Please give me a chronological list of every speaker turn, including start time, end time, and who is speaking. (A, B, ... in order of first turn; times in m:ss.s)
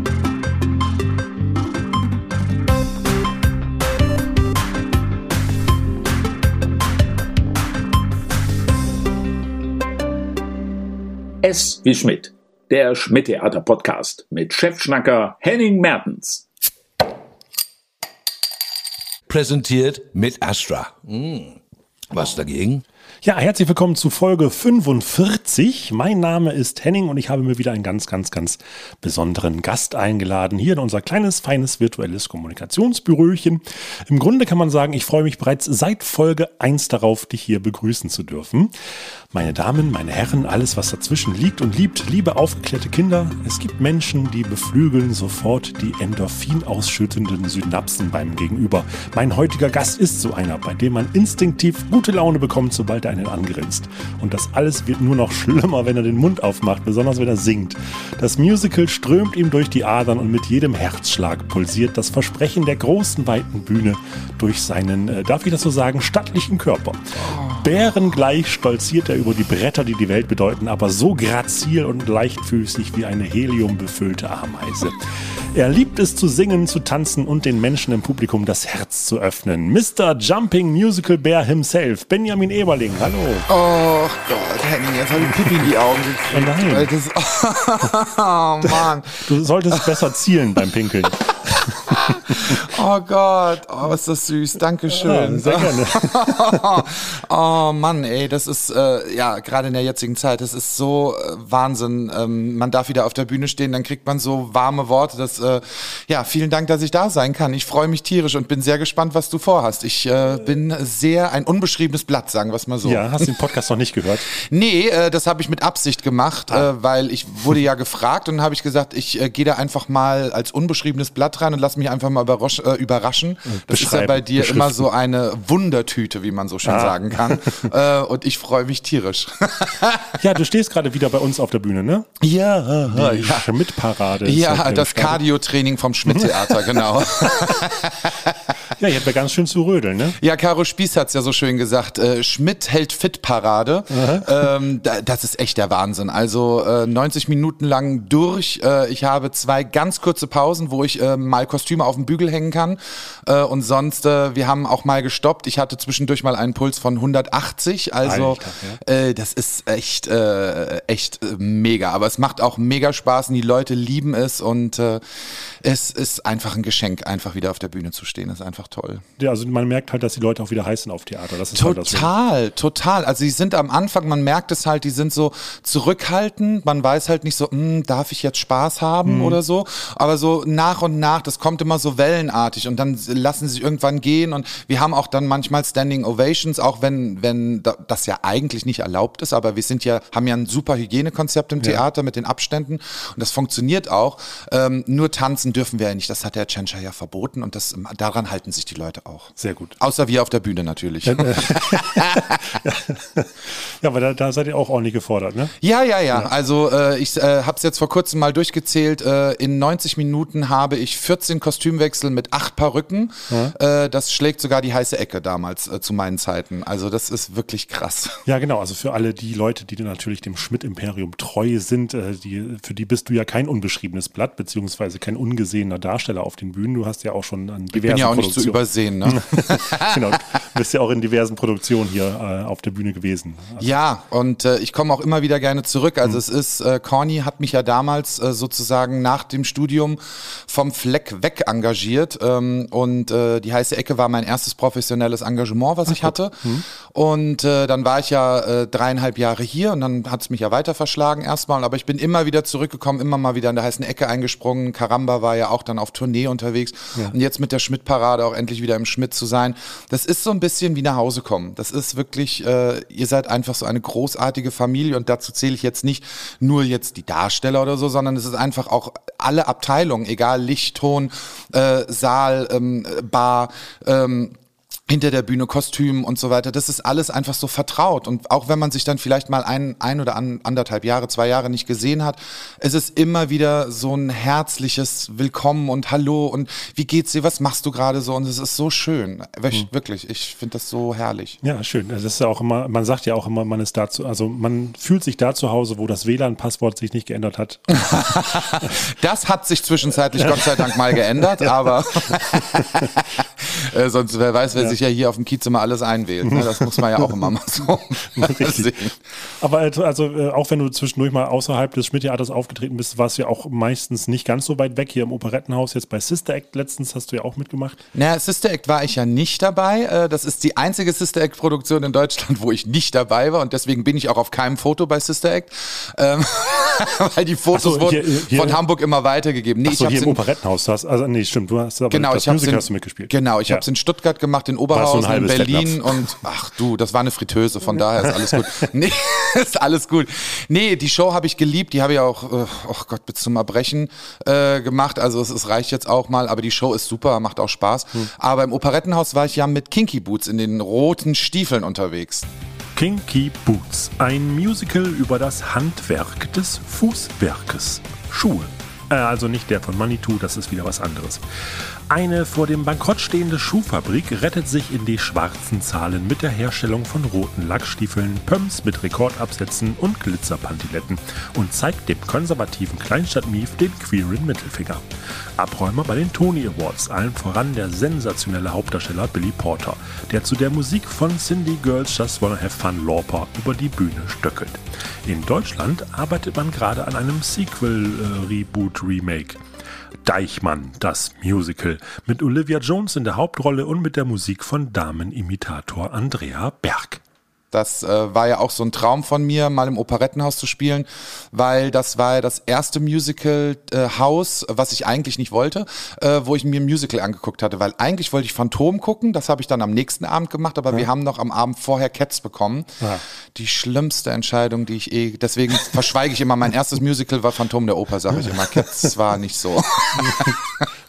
0:11.4-0:16.5 A
0:19.3-0:21.6 B
0:22.1-0:22.8 B
0:23.2-0:38.7 C
0:39.3-1:23.5 C
1:07.2-1:07.7 D
1:23.5-1:29.9 D
1:26.3-1:26.9 C
1:29.3-1:32.6 C
1:31.9-1:53.3 D
1:34.9-1:36.6 C
1:52.8-1:54.3 C
1:54.3-2:10.2 D
2:03.5-2:04.9 C
2:06.6-2:07.7 C
2:10.2-2:12.2 C
2:12.2-2:13.5 D
2:12.9-2:15.2 C
2:14.2-2:18.4 D
2:16.1-2:17.6 C
2:18.7-2:20.2 C
2:20.2-2:49.0 D
2:23.9-2:24.5 C
2:38.0-2:38.8 C
2:49.2-2:52.1 C
2:51.6-3:22.6 D
2:59.0-2:59.4 C
3:19.4-3:19.8 C
3:21.0-3:25.5 C
3:25.6-3:38.2 D
3:38.3-3:53.7 C
3:47.7-3:50.2 D
3:53.6-4:34.4 D
4:05.9-4:06.6 C
4:34.9-4:51.4 D
4:51.4-4:58.8 C
4:57.8-5:09.0 D
5:00.2-5:02.9 C
5:06.3-5:07.1 C
5:08.1-5:08.7 C
5:09.4-5:17.8 C
5:17.9-5:30.2 D
5:27.5-5:28.6 C
5:29.6-5:33.6 C
5:31.9-5:52.3 D
5:34.7-5:36.1 C
5:38.1-5:38.4 C
5:52.8-6:14.9 C
6:15.4-6:29.4 C
6:30.0-6:37.0 C
6:37.5-6:52.7 D
6:53.3-7:00.4 D
7:00.0-7:00.3 C